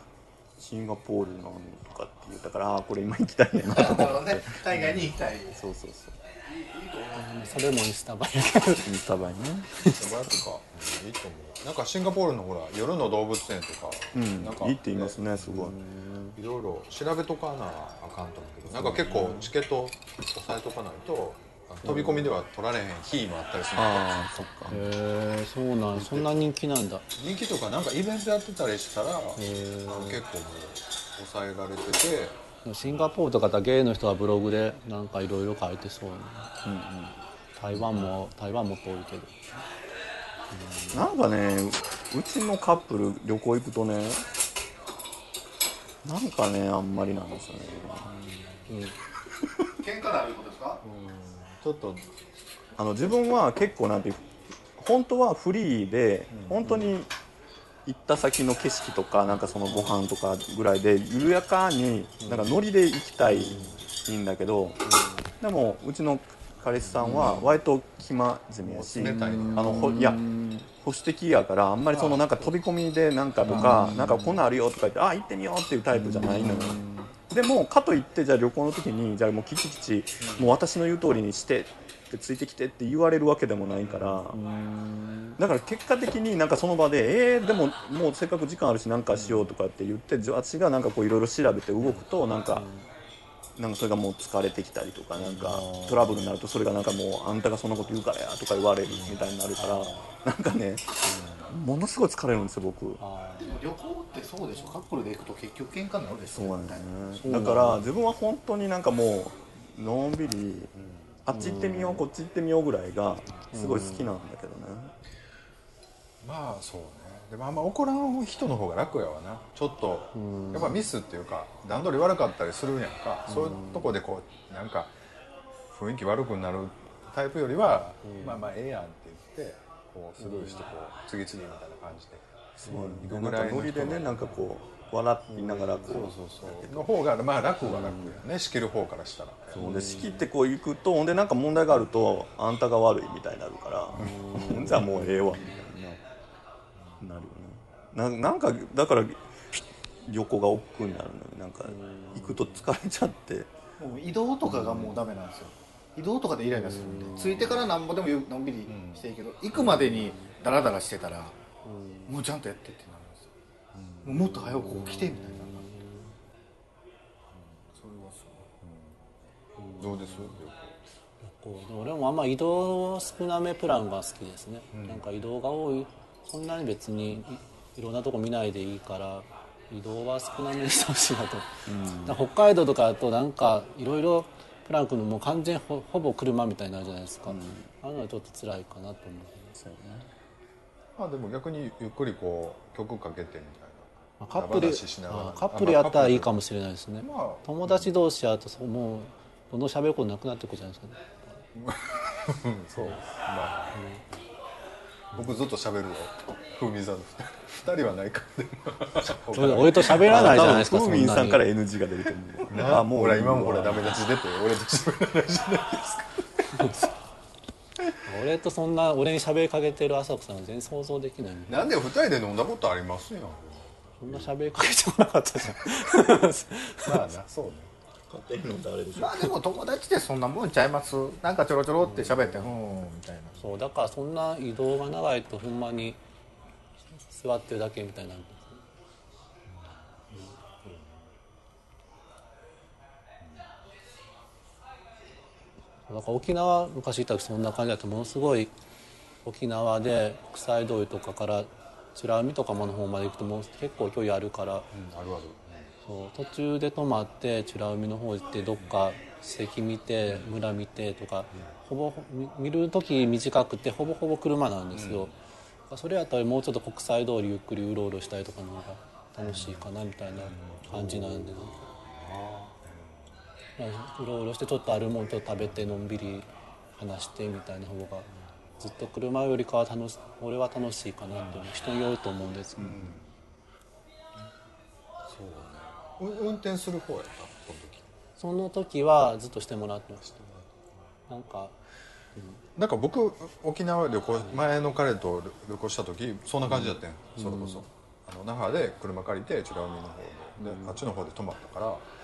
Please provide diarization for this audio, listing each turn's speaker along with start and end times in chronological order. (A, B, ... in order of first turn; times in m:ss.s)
0:00.6-0:06.2 A
0:03.6-0:05.6 B
0:06.4-0:07.8 B
0:07.1-0:09.0 C
0:08.8-0:09.7 A
0:09.8-0:10.2 C
0:09.8-0:15.2 D
0:14.1-0:15.8 A
0:15.5-0:16.4 C
0:16.4-0:24.9 D
0:18.8-0:19.4 A
0:21.8-0:22.3 A
0:23.8-0:24.8 A
0:24.7-0:27.0 C
0:26.0-0:26.3 D
0:27.1-0:32.4 D
0:29.4-0:30.2 C
0:32.6-0:36.6 C
0:37.6-0:39.4 C
0:40.5-0:41.0 C
0:40.9-0:44.2 A
0:46.0-0:48.1 A
0:48.7-0:49.0 C
0:49.8-0:50.8 B
0:50.8-0:52.0 D
0:52.8-0:57.1 A
0:56.3-0:56.9 D
0:57.8-1:04.8 A
1:02.2-1:02.6 C
1:03.2-1:03.8 C
1:05.4-1:24.4 A
1:07.0-1:07.4 C
1:08.6-1:10.1 D
1:09.0-1:10.6 C
1:13.4-1:14.4 C
1:15.9-1:17.1 C
1:20.2-1:20.6 D
1:23.9-1:24.2 D
1:24.3-1:25.4 C
1:25.4-1:32.6 A
1:29.1-1:29.5 D
1:32.5-1:32.9 C
1:33.6-1:43.0 A
1:35.3-1:36.0 C
1:39.6-1:40.1 C
1:41.0-1:41.5 D
1:43.0-1:43.6 C
1:43.4-1:47.2 B
1:46.3-1:50.7 A
1:47.2-1:47.8 C
1:50.7-1:51.2 D
1:51.2-1:54.9 A
1:51.3-1:52.0 C
1:53.5-1:54.2 C
1:56.2-2:04.9 D
2:00.1-2:00.8 C
2:03.3-2:03.8 C
2:05.7-2:14.4 D
2:08.0-2:08.5 C
2:10.2-2:10.7 C
2:12.6-2:16.9 A
2:12.7-2:13.0 C
2:15.3-2:20.0 D
2:19.6-2:26.0 A
2:19.6-2:20.2 C
2:24.0-2:25.2 C
2:24.0-2:25.4 D
2:27.0-2:33.5 A
2:31.6-2:32.6 C
2:33.8-2:41.4 B
2:34.5-2:35.0 A
2:36.6-2:37.4 C
2:38.7-2:39.0 D
2:39.8-2:40.0 C
2:41.6-2:42.1 C
2:42.1-2:43.3 B
2:43.7-2:44.2 D
2:44.0-2:45.7 B
2:44.2-2:46.1 C
2:47.7-2:48.5 B
2:48.6-2:49.0 D
2:49.6-2:50.4 C
2:49.8-2:50.7 D
2:51.2-3:09.6 C
2:54.7-2:55.0 D
3:01.7-3:02.2 A
3:07.3-3:07.7 A
3:09.6-3:10.1 A
3:11.0-3:16.4 D
3:14.2-3:21.4 C
3:17.0-3:17.9 D
3:21.5-3:23.8 D
3:23.7-3:24.0 C
3:25.1-3:30.4 D
3:29.3-3:31.4 C
3:29.9-3:34.0 A
3:32.5-3:36.8 D
3:36.6-3:36.8 C
3:38.0-3:41.7 C
3:41.5-3:44.3 D
3:44.0-3:47.0 C
3:46.8-3:47.7 D
3:48.1-3:49.3 A
3:49.0-3:53.4 B
3:51.9-3:52.2 C
3:53.4-3:56.0 C
3:56.9-3:58.6 C
3:59.5-4:01.0 D
4:05.9-4:08.5 C
4:09.2-4:14.7 C
4:14.7-4:15.7 D
4:15.8-4:25.1 C
4:24.7-4:25.1 D
4:25.7-4:31.6 C
4:29.3-4:29.6 D
4:30.2-4:32.9 D
4:33.6-4:42.9 C
4:42.6-4:43.2 D
4:45.0-4:47.9 D
4:48.2-4:50.0 C
4:50.0-4:50.5 D
4:51.1-4:51.6 C
4:52.6-5:01.8 D
4:56.6-4:57.6 C
5:00.4-5:00.8 C